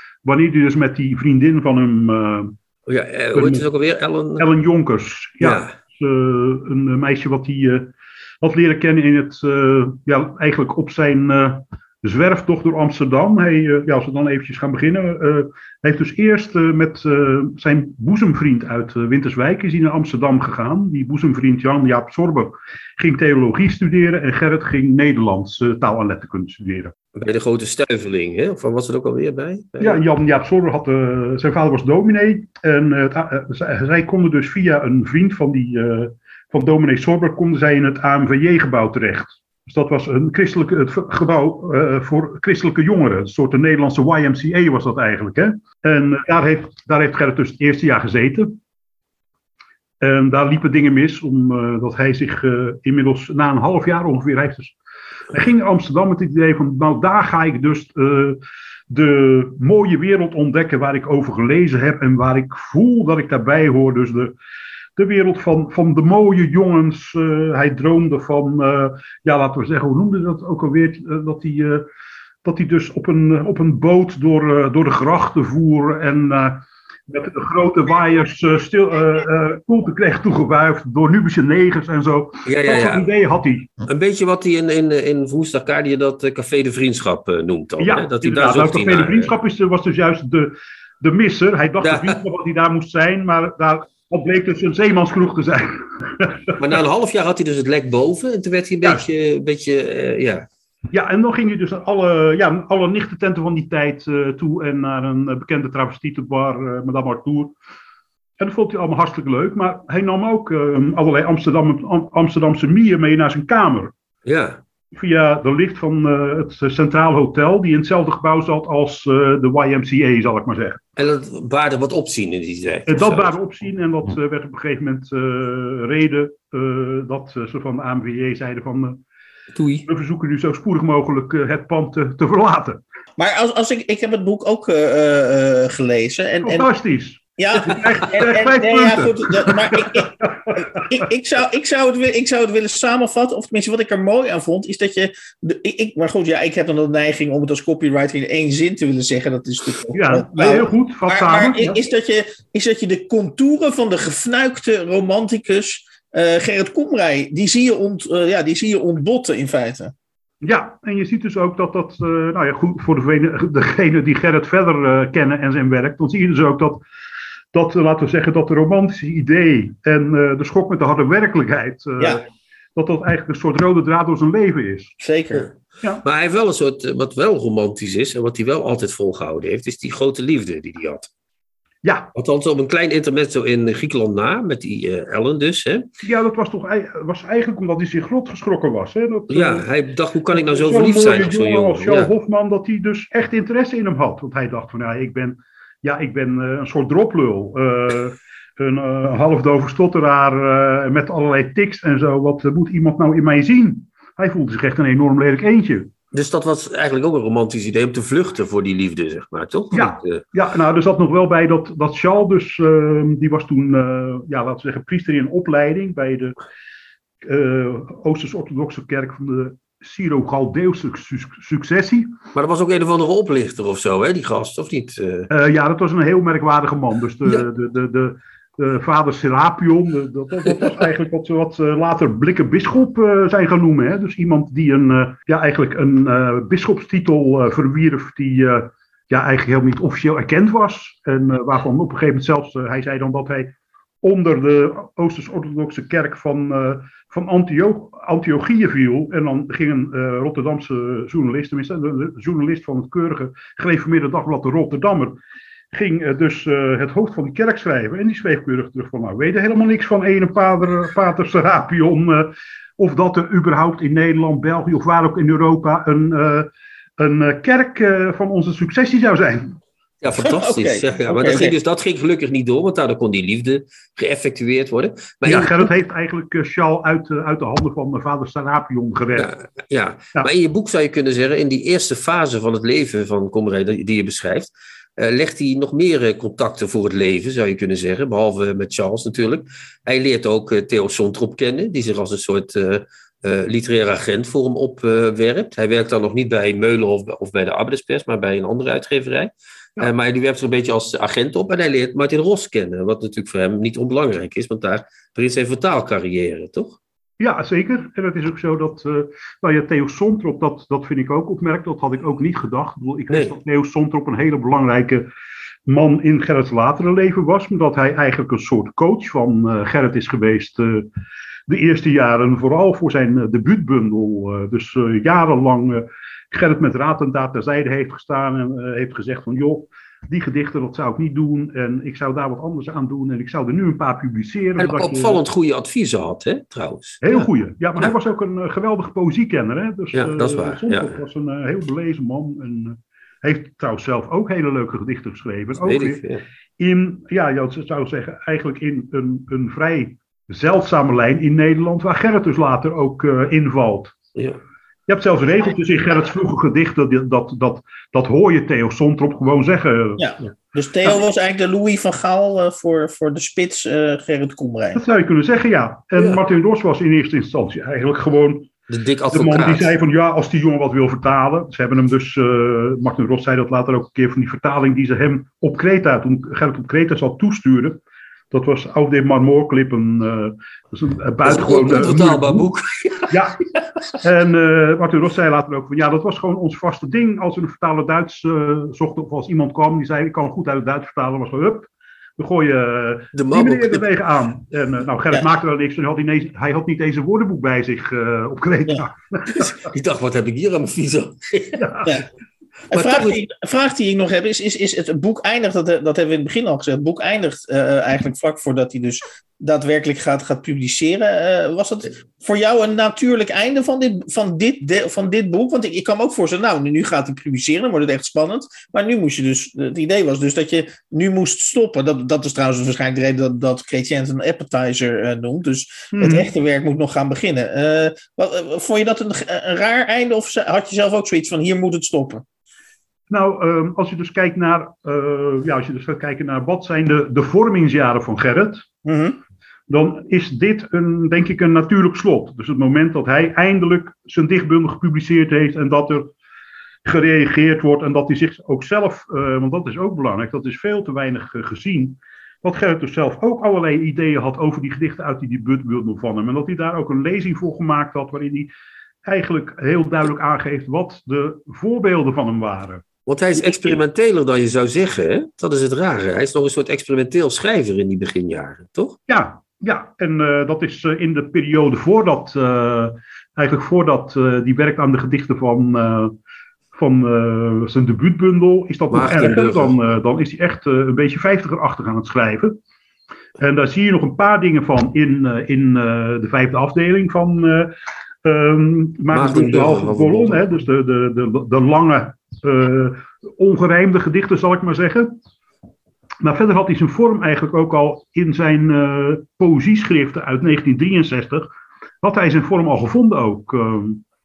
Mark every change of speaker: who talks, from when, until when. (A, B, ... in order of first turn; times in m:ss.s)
0:00.2-0:02.6 A
0:02.9-0:04.5 B
0:03.4-0:03.6 A
0:04.4-0:26.9 A
0:05.4-0:05.8 B
0:27.1-0:30.0 B
0:29.8-0:48.6 A
0:50.0-0:54.8 A
0:55.3-1:04.3 A
1:05.0-1:11.9 A
1:12.4-1:23.7 A
1:22.5-1:23.1 B
1:23.9-1:29.4 B
1:27.8-1:36.6 A
1:31.8-1:32.2 B
1:36.6-1:40.5 B
1:40.9-1:47.6 A
1:48.4-1:53.9 A
1:54.2-1:54.6 B
1:54.9-2:00.8 A
2:01.0-2:03.3 B
2:02.9-2:09.0 A
2:09.5-2:09.9 B
2:09.9-2:12.8 A
2:13.2-2:16.7 C
2:16.4-2:21.1 A
2:17.4-2:39.9 C
2:29.9-2:31.8 A
2:40.4-2:46.8 A
2:47.5-2:52.2 A
2:52.8-2:54.9 A
2:55.0-2:55.5 C
2:56.0-3:01.1 B
3:01.8-3:02.1 A
3:02.1-3:05.9 B
3:06.0-3:09.7 A
3:09.3-3:12.1 B
3:10.3-3:25.9 A
3:26.1-3:30.2 B
3:29.7-3:36.4 A
3:37.2-3:42.1 A
3:42.4-3:45.3 B
3:45.3-4:15.2 A
4:15.7-4:29.6 A
4:30.0-4:35.7 B
4:30.2-4:31.5 C
4:35.3-4:39.3 A
4:39.1-5:06.8 B
5:07.2-5:15.1 A
5:13.1-5:13.4 B
5:15.7-5:20.9 A
5:21.5-5:35.2 A
5:34.6-5:37.9 B
5:37.0-5:46.0 A
5:39.9-5:41.0 B
5:45.6-5:46.2 B
5:46.6-5:54.0 A
5:54.2-5:54.4 B
5:54.9-6:00.1 A
6:00.0-6:04.8 C
6:04.8-6:08.5 A
6:06.0-6:06.2 B
6:08.7-6:09.7 B
6:09.1-6:22.5 A
6:21.2-6:23.2 B
6:23.1-6:23.4 A
6:24.0-6:39.6 A
6:33.1-6:33.9 B
6:39.3-6:41.7 B
6:41.6-6:41.9 A
6:42.7-7:12.2 C
6:42.7-6:43.2 B
7:05.9-7:06.3 A
7:13.1-7:18.7 A
7:18.8-7:19.2 C
7:19.7-7:26.1 A
7:26.8-7:38.5 A
7:39.0-7:42.8 A
7:43.1-7:49.0 B
7:49.1-7:56.2 A
7:56.7-8:02.6 A
7:58.9-7:59.8 B
8:03.4-8:15.2 A
8:09.1-8:10.6 B
8:16.2-8:21.5 A
8:22.0-8:24.0 A